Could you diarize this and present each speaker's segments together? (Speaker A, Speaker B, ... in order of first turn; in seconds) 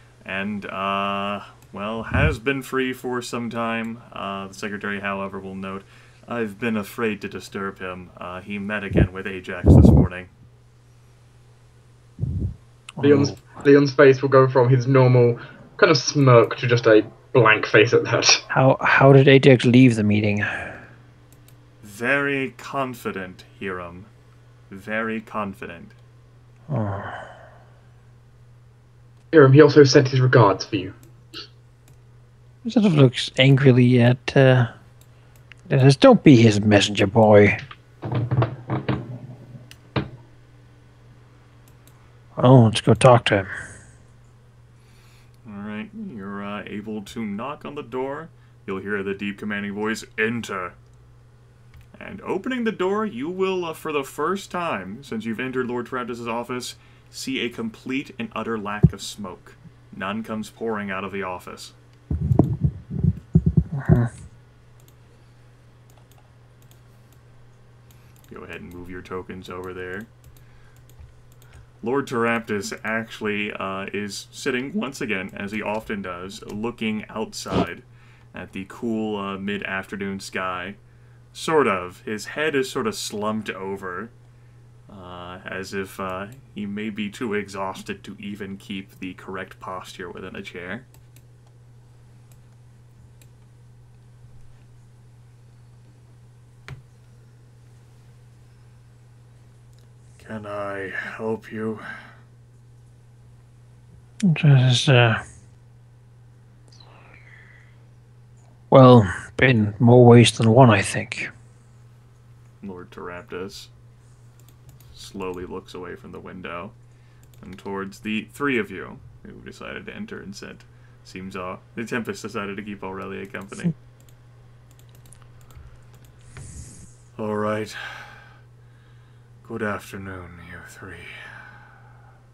Speaker A: 0.2-10.3, 21.8-24.1, 24.7-25.9, 45.4-50.8, 52.0-61.7, 68.3-70.1, 71.8-80.8, 81.3-84.1, 84.9-90.9, 100.2-101.8, 112.6-113.7, 114.9-116.7, 117.4-123.7, 127.2-128.2, 129.4-131.2
Speaker B: 13.0-13.4, 18.5-20.9, 26.7-27.3, 32.6-34.7, 35.7-37.6, 42.4-43.5, 63.7-64.1, 104.2-105.2, 108.7-111.3
Speaker C: 13.0-18.4, 29.3-30.9